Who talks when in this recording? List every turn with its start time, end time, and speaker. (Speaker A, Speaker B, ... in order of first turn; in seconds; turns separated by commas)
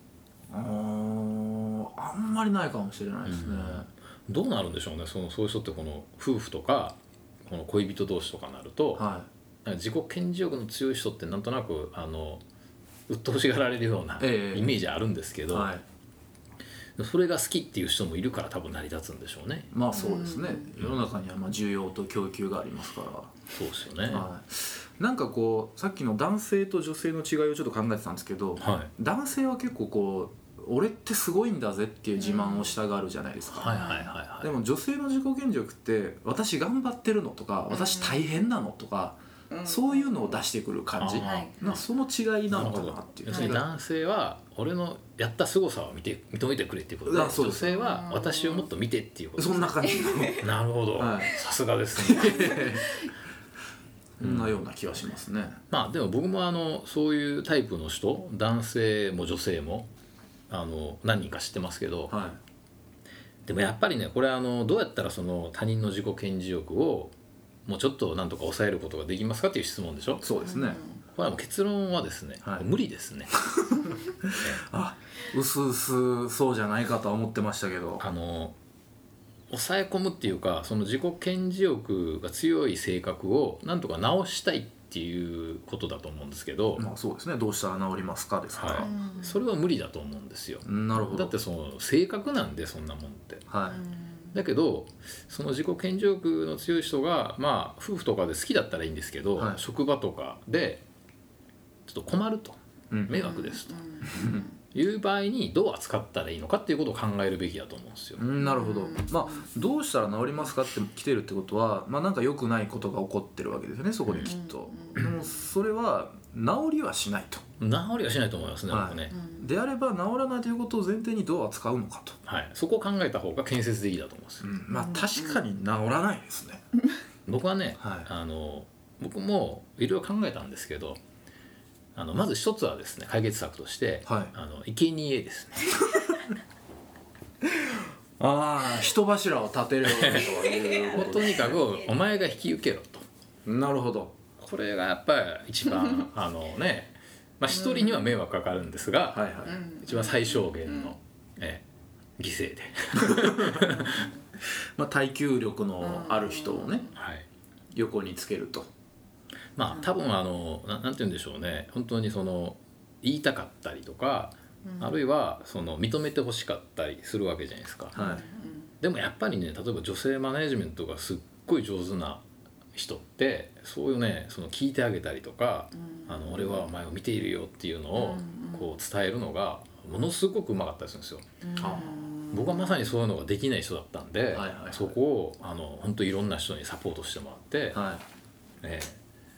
Speaker A: 0.5-3.9, Speaker B: 3.2-9.1, Speaker A: 9.0-9.3, Speaker B: 9.7-12.4, Speaker B: 13.1-15.7, Speaker A: 14.2-14.8, Speaker A: 15.5-15.8, Speaker B: 17.0-19.7, Speaker A: 19.7-23.4, Speaker C: 19.9-20.7, Speaker B: 23.5-24.3, Speaker A: 24.1-43.7, Speaker B: 28.6-28.9, Speaker C: 32.2-32.7, Speaker B: 33.5-34.5, Speaker C: 33.6-34.1, Speaker C: 37.7-38.2, Speaker C: 39.5-40.4, Speaker B: 40.9-41.8, Speaker C: 41.1-41.8, Speaker B: 42.5-52.7, Speaker C: 43.3-43.6, Speaker A: 47.1-47.8, Speaker C: 47.8-48.7, Speaker A: 49.4-51.4, Speaker A: 52.0-52.9, Speaker C: 52.6-53.1, Speaker A: 54.2-55.6, Speaker B: 54.2-54.6, Speaker B: 55.7-59.9, Speaker B: 60.5-62.2, Speaker A: 62.1-62.4, Speaker B: 63.5-67.1, Speaker B: 67.7-70.3, Speaker A: 70.2-70.8, Speaker C: 70.4-71.0, Speaker B: 71.1-73.3, Speaker A: 73.3-78.0, Speaker B: 78.0-78.6, Speaker B: 79.5-86.9, Speaker A: 86.8-88.9, Speaker B: 88.5-93.5, Speaker C: 88.8-89.4, Speaker A: 90.6-91.4, Speaker A: 93.5-93.8, Speaker C: 93.7-94.4, Speaker B: 94.3-100.8, Speaker A: 99.4-99.6, Speaker B: 101.9-104.1, Speaker A: 102.9-103.2, Speaker C: 103.1-104.5, Speaker B: 104.7-108.2, Speaker A: 108.2-117.4, Speaker C: 108.4-109.6, Speaker B: 114.1-114.3, Speaker C: 114.2-115.2, Speaker B: 117.6-119.2, Speaker A: 118.7-122.2, Speaker C: 119.1-119.5, Speaker B: 122.3-124.5, Speaker A: 124.4-126.6, Speaker C: 124.7-125.4, Speaker B: 127.3-131.0, Speaker A: 127.8-128.1, Speaker B: 132.0-136.0, Speaker A: 134.1-134.3, Speaker A: 138.2-141.6, Speaker B: 139.8-140.4, Speaker C: 140.5-140.9, Speaker B: 140.9-143.1, Speaker A: 143.4-144.2, Speaker B: 144.4-149.3, Speaker C: 147.5-148.2, Speaker A: 149.1-149.6, Speaker C: 149.5-150.9, Speaker B: 149.8-151.6, Speaker B: 152.2-154.1, Speaker A: 153.1-153.7, Speaker C: 153.8-154.1, Speaker A: 154.8-156.9, Speaker C: 155.8-156.9, Speaker B: 156.9-157.3, Speaker A: 157.7-158.7, Speaker B: 159.6-168.0, Speaker C: 164.7-165.0, Speaker A: 167.9-168.2, Speaker C: 167.9-168.7, Speaker B: 168.8-172.2, Speaker B: 172.8-181.3, Speaker C: 175.8-176.6, Speaker C: 177.9-178.8, Speaker C: 181.4-182.9, Speaker A: 181.6-182.0, Speaker B: 182.3-187.8, Speaker A: 184.3-185.0, Speaker A: 187.7-188.1, Speaker B: 188.6-189.0